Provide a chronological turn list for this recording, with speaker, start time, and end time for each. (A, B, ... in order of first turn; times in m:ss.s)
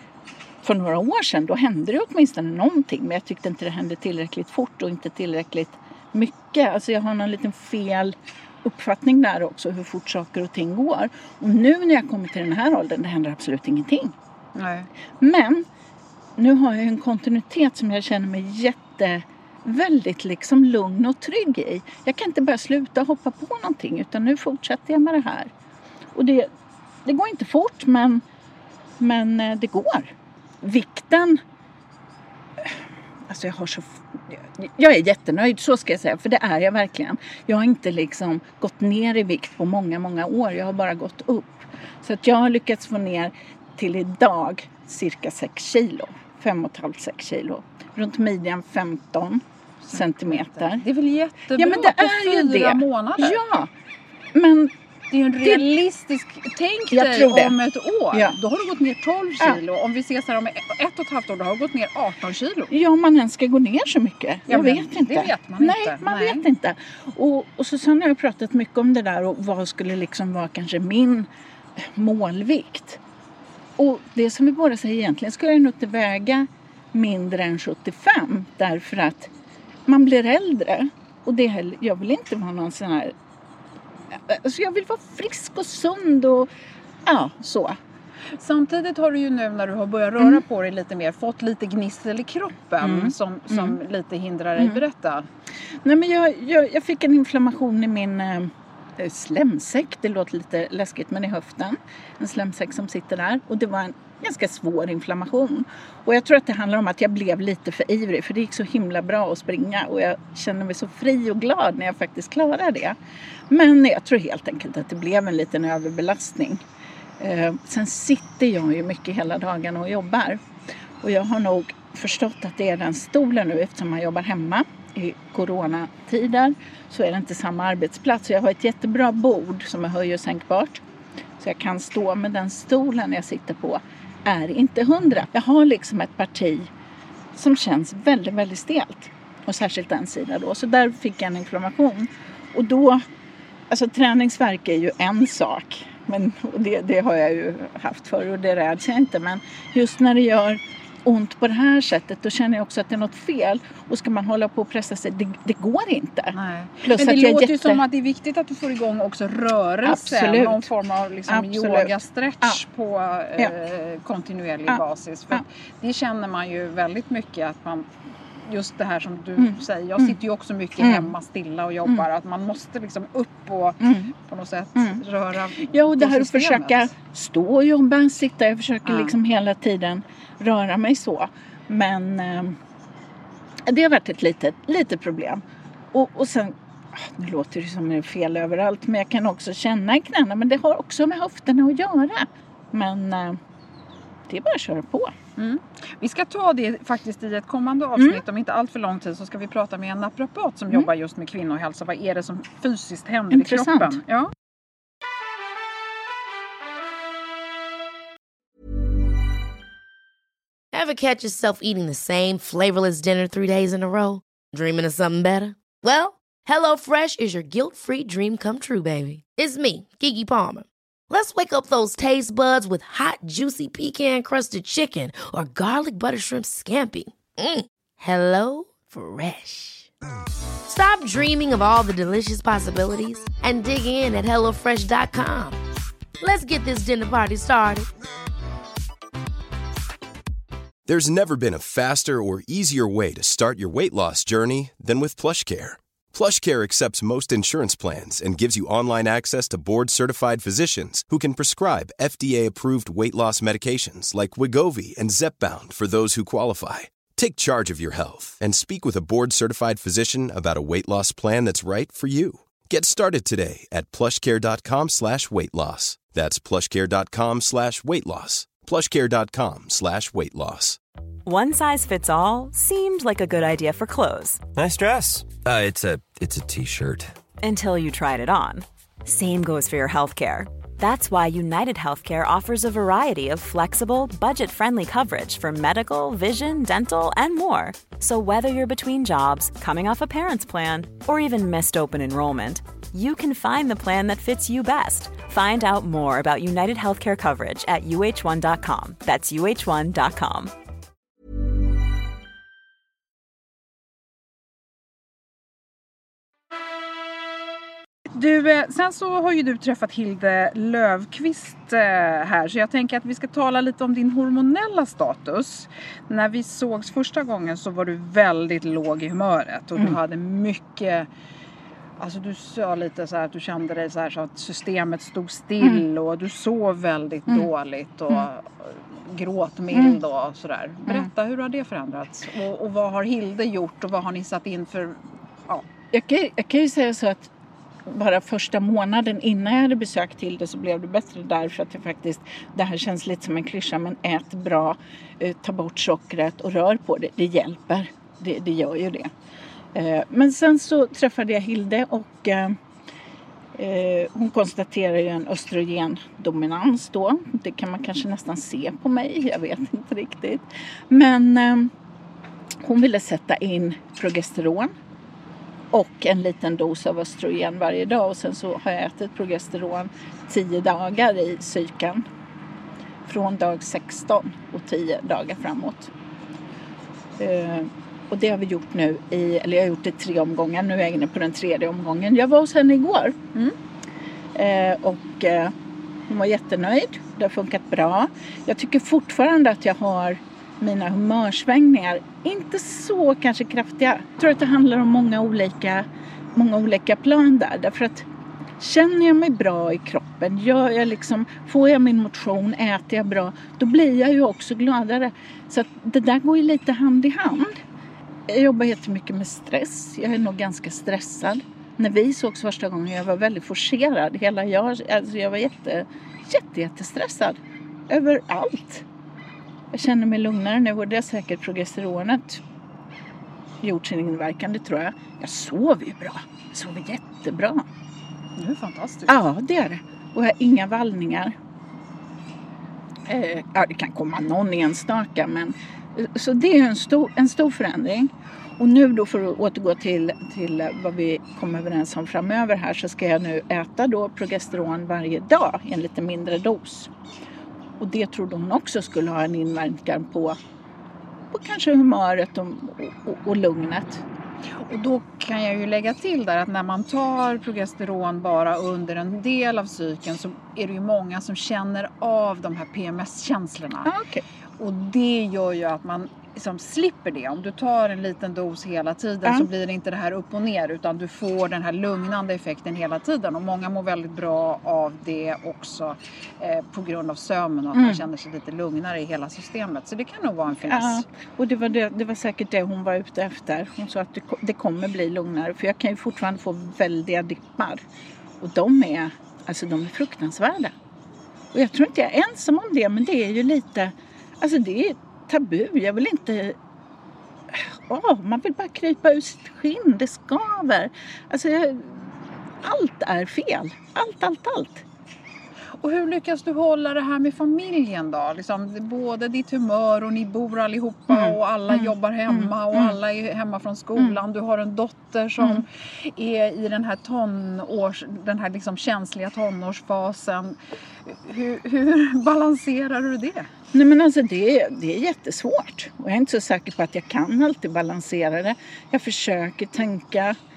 0:00.6-0:14.2 A
0:14.6-0:14.9 B
0:15.2-0:15.7 A
0:16.4-0:25.5 A
0:26.1-0:26.5 A
0:27.0-0:28.2 A
0:29.0-0:31.4 A
0:32.6-0:50.8 A
0:49.9-0:53.4 B
0:51.6-0:53.7 A
0:54.3-0:54.7 A
0:55.1-1:02.7 B
0:55.4-0:55.7 A
0:56.9-0:57.6 A
0:58.1-0:58.4 A
1:02.7-1:13.0 A
1:04.5-1:06.4 B
1:13.8-1:19.3 A
1:19.9-1:23.1 A
1:24.1-1:26.5 A
1:27.0-1:27.8 A
1:28.4-1:35.3 B
1:32.8-1:33.8 A
1:34.6-1:34.8 A
1:35.8-1:53.0 A
1:53.5-1:56.6 A
1:57.2-2:00.4 A
2:01.0-2:10.8 A
2:11.4-2:16.7 A
2:17.4-2:23.0 A
2:23.7-2:37.8 A
2:36.3-2:47.9 B
2:39.8-2:40.7 A
2:41.3-2:42.6 A
2:44.7-2:45.4 A
2:48.4-2:56.9 B
2:49.4-2:50.2 A
2:50.8-2:51.1 A
2:53.8-2:54.1 A
2:54.8-2:55.0 A
2:55.6-3:02.6 A
2:58.8-2:59.2 B
3:03.6-3:13.4 A
3:14.3-3:15.1 A
3:15.4-3:24.3 B
3:18.0-3:18.2 A
3:23.3-3:24.0 A
3:30.7-3:49.9 C
3:50.7-3:55.6 C
3:56.2-3:57.9 C
4:00.9-4:30.8 D
4:31.2-4:34.4 E
4:34.6-4:37.1 F
4:37.4-5:00.5 E
5:08.1-5:21.1 B
5:22.0-5:35.7 B
5:25.6-5:25.8 A
5:29.7-5:30.0 A
5:35.9-5:37.3 A
5:37.8-5:49.1 A
5:49.7-5:52.6 A
5:53.6-6:01.7 A
6:02.6-6:04.7 A
6:05.7-6:12.0 A
6:13.0-6:15.9 A
6:17.2-6:23.2 A
6:24.4-6:25.6 A
6:26.1-6:38.1 A
6:38.6-6:47.6 A
6:48.3-6:58.8 A
6:59.7-7:02.4 A
7:03.6-7:07.6 A
7:08.4-7:09.2 B
7:09.1-7:11.4 A
7:13.0-7:26.9 A
7:27.8-7:30.4 A
7:31.3-7:34.0 A
7:34.5-7:43.9 B
7:43.8-7:44.2 A
7:44.6-8:01.0 B
7:57.7-7:58.0 A
8:00.6-8:07.8 A
8:08.4-8:10.7 A
8:11.5-8:16.6 A
8:17.5-8:24.8 A
8:25.8-8:43.5 B
8:31.1-8:33.0 A
8:35.4-8:35.6 A
8:43.7-8:50.4 A